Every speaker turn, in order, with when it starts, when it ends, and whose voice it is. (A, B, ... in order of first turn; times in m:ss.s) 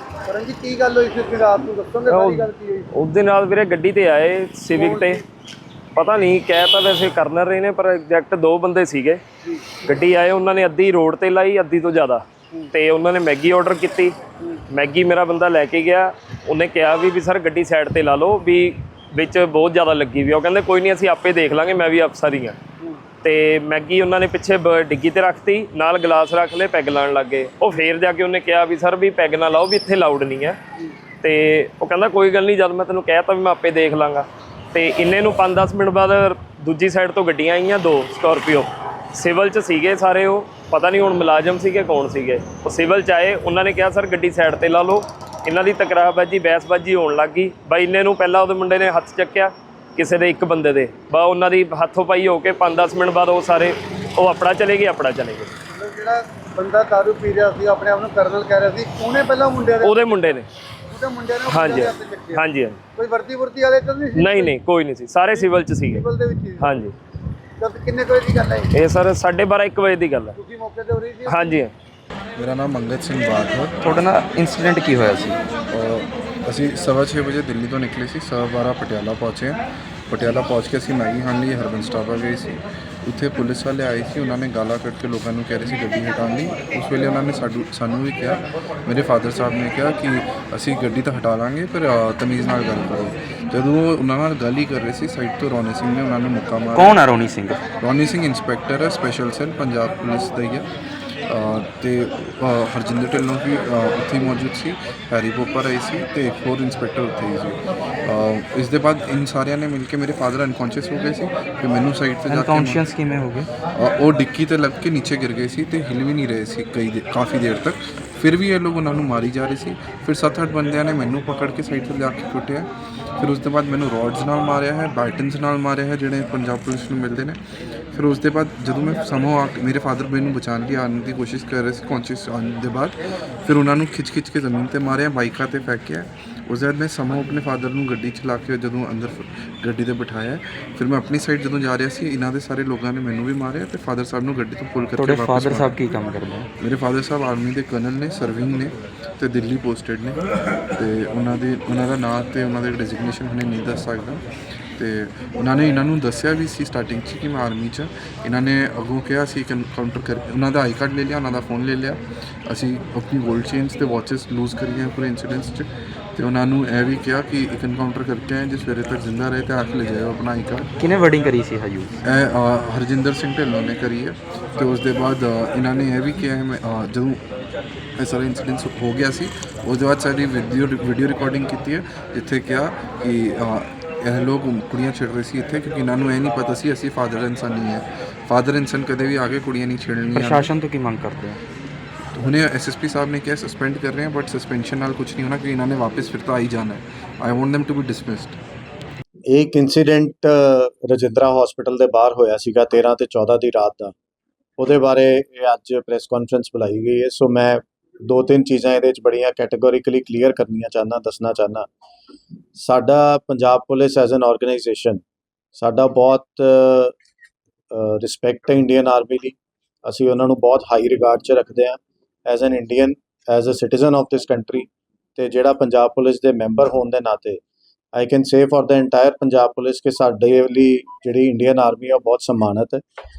0:00.3-0:02.8 A
0:02.1-0:05.2 B
0:04.7-0:05.2 A
0:05.9-0:09.2 B
0:09.8-0:14.2 B
0:14.7-0:22.6 B
0:23.2-0:30.6 B
0:31.2-0:55.6 B
0:55.7-1:00.4 A
0:59.8-1:00.5 B
1:00.9-1:02.4 A
1:01.5-1:02.8 B
1:03.0-1:04.6 A
1:04.2-1:06.0 B
1:05.3-1:06.8 A
1:06.6-1:06.9 B
1:07.6-1:08.7 A
1:08.7-1:10.4 B
1:10.4-1:11.6 A
1:11.3-1:11.7 B
1:12.4-1:13.9 C
1:13.8-1:15.4 D
1:15.7-1:37.0 C
1:36.7-1:37.6 D
1:37.8-1:40.7 C
1:41.3-1:52.9 C
1:52.3-1:53.5 D
1:53.7-2:07.4 C
2:07.9-2:25.9 C
2:25.0-2:26.5 D
2:26.6-2:30.2 C
2:30.7-2:50.7 C
2:50.8-2:52.0 D
2:52.0-2:57.2 C
2:58.0-3:10.5 C
3:10.1-3:11.4 D
3:12.1-3:18.4 C
3:19.3-3:23.9 E
3:24.6-3:31.7 E
3:32.6-3:35.0 E
3:35.6-3:36.9 E
3:37.7-3:47.4 E
3:47.9-3:52.8 E